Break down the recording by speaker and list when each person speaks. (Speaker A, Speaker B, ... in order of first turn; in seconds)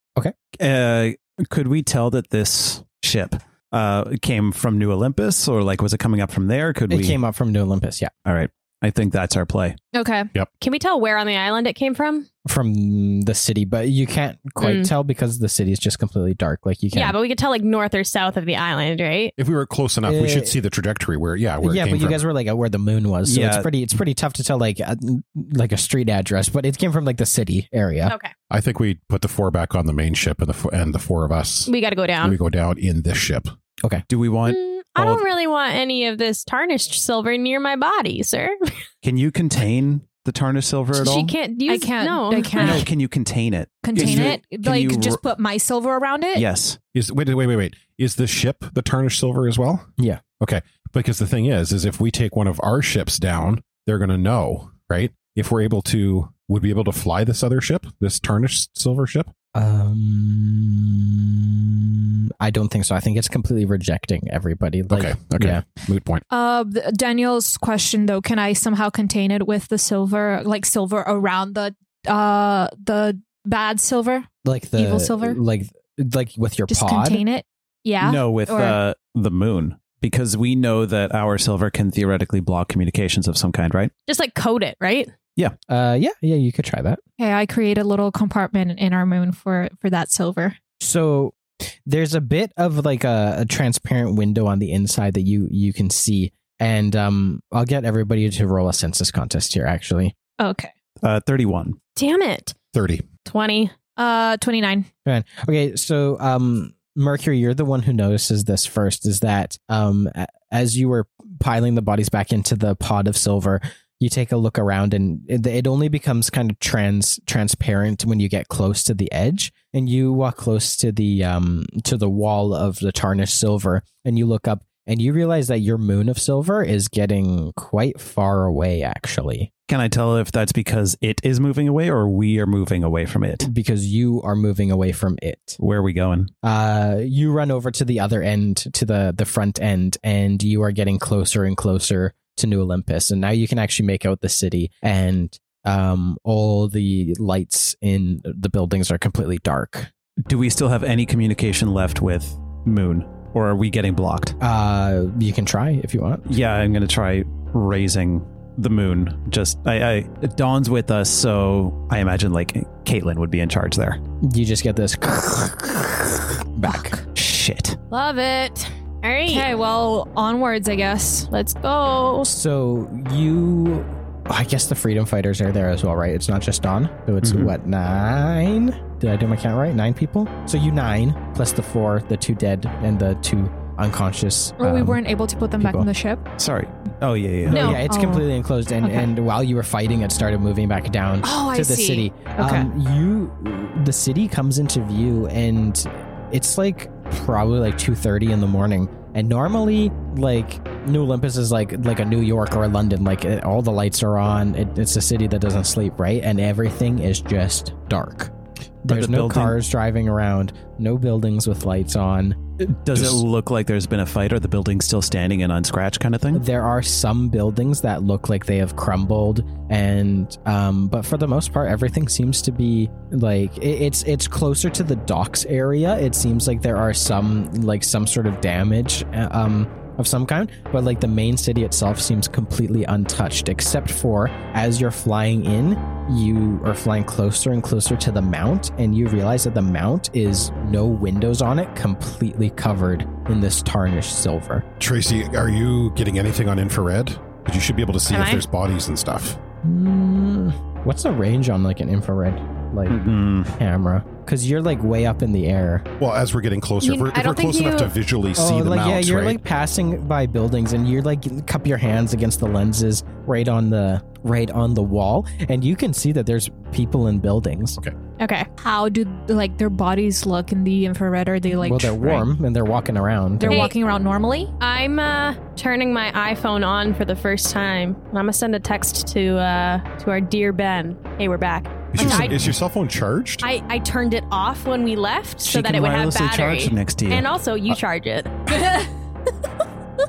Speaker A: 0.6-7.2, 8.2-9.8, 23.2-23.7, 34.1-35.2, 39.0-41.3, 42.6-45.2, 46.4-46.8, 78.0-83.9, 101.0-101.8, 129.7-133.5, 135.6-136.3, 150.3-154.4, 156.3-164.0, 167.1-167.8, 177.2-177.5, 186.4-187.8, 208.9-209.6, 212.6-216.4, 252.9-253.6, 285.4-287.3
Speaker B: 6.9-8.1, 12.4-17.1, 20.0-20.6, 21.6-28.1, 59.5-65.7, 74.4-77.2, 85.7-87.0, 90.8-100.1, 105.1-129.5, 133.4-135.6, 136.4-149.9, 154.4-156.3, 164.2-167.0, 172.3-185.0, 185.6-185.9, 187.5-208.3, 208.8-212.4, 216.3-244.7, 249.6-255.9, 258.4-267.8, 271.6-273.7, 282.0-282.4
Speaker C: 9.9-10.3, 41.7-42.9, 43.8-46.5, 66.3-75.4, 76.7-78.8, 87.2-90.6, 100.4-100.7, 104.0-104.9, 166.7-167.1, 169.3-171.3, 184.6-186.2, 187.6-188.3, 191.2-192.7, 268.6-272.3, 273.4-274.5
Speaker D: 10.6-12.3, 14.6-14.9, 16.9-19.3, 28.1-28.3, 31.7-32.4, 34.5-38.8, 40.9-42.9, 84.1-85.1, 102.0-102.5, 103.2-103.8, 167.9-169.5, 171.3-172.3, 187.5-188.0, 248.1-248.4, 256.8-257.9, 268.2-268.5, 273.4-273.8, 274.6-282.4, 283.4-288.9
Speaker E: 19.4-22.2, 28.5-33.5, 47.0-59.3, 64.9-66.2, 102.7-103.0, 212.9-213.2, 244.8-249.4, 256.0-259.4, 281.9-283.5